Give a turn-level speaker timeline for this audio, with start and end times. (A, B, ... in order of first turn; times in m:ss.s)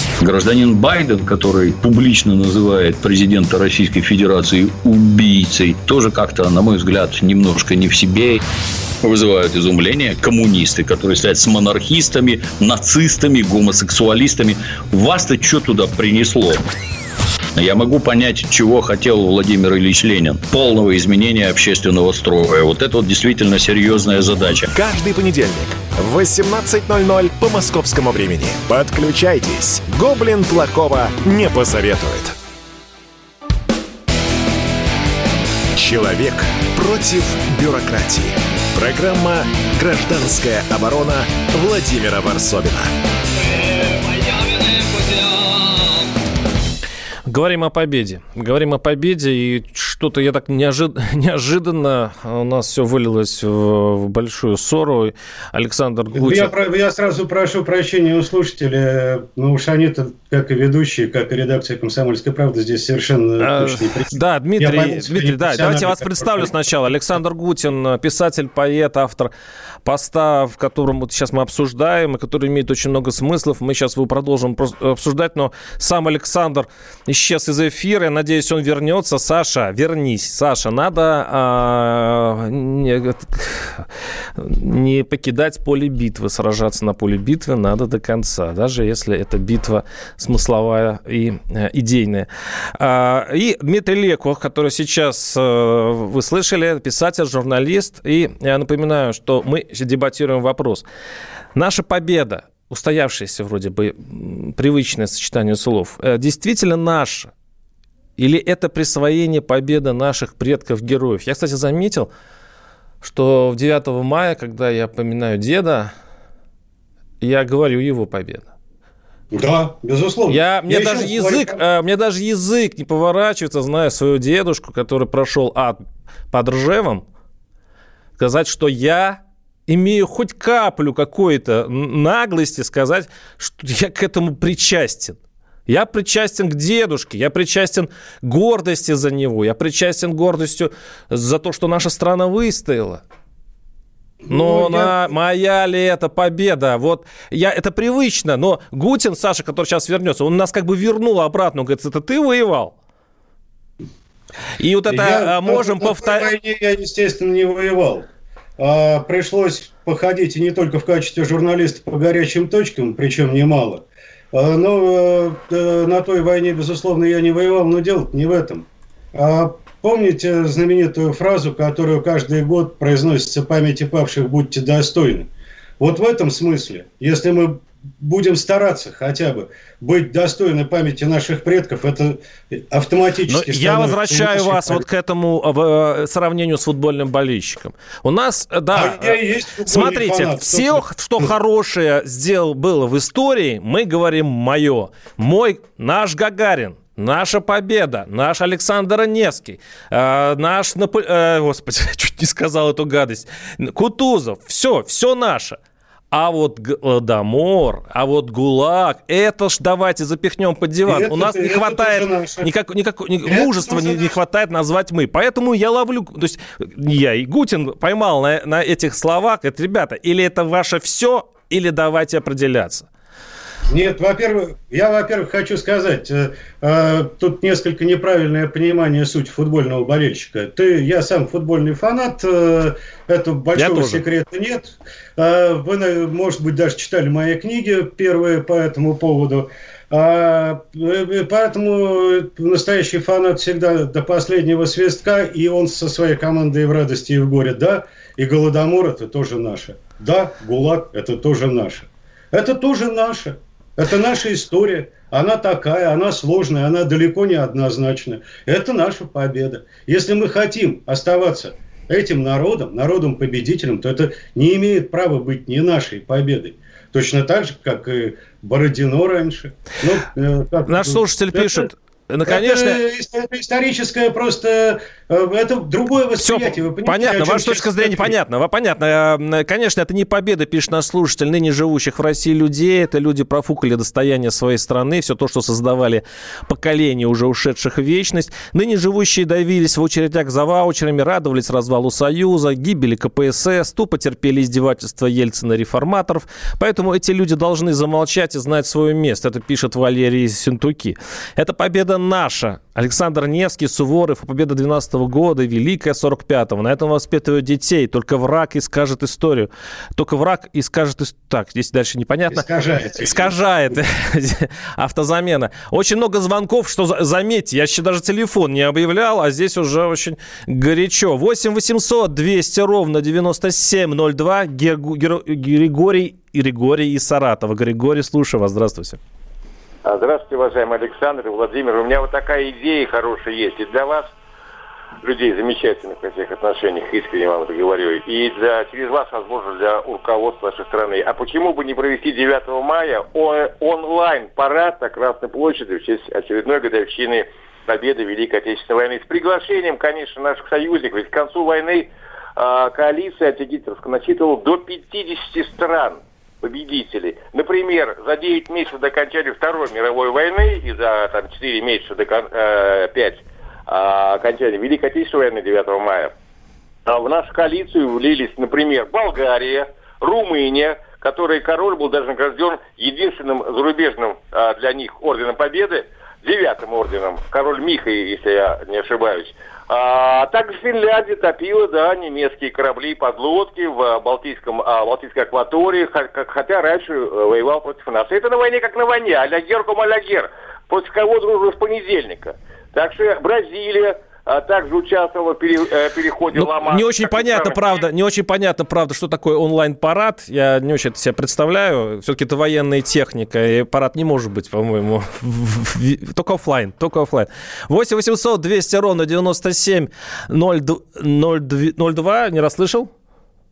0:00.2-0:08.4 A
0:09.0-0:16.6 A
0:17.6-0:24.7 A
0:24.7-0:32.4 B
0:35.8-0:42.9 B
0:47.3-0:56.6 C
0:56.1-1:06.5 D
1:03.4-1:09.3 C
1:09.8-1:40.8 C
1:41.6-1:47.3 C
1:48.2-1:52.1 C
1:53.0-1:55.9 C
1:57.2-1:58.5 C
1:59.3-2:01.6 D
2:00.3-2:05.8 C
2:06.3-2:07.0 C
2:08.2-2:23.0 C
2:24.2-2:25.1 D
2:24.3-2:32.8 C
2:34.6-2:36.3 C
2:34.9-3:04.8 D
3:03.3-3:25.6 C
3:08.7-3:11.3 D
3:26.1-3:42.9 C
3:30.9-3:32.5 D
3:33.3-3:34.2 D
3:43.7-4:31.7 D
3:53.6-3:54.0 C
4:30.7-4:32.8 C
4:32.3-4:38.1 D
4:36.2-5:29.0 C
5:12.3-5:13.8 D
5:29.8-5:34.1 E
5:35.0-6:06.1 E
6:06.9-6:37.8 E
6:36.3-6:52.9 C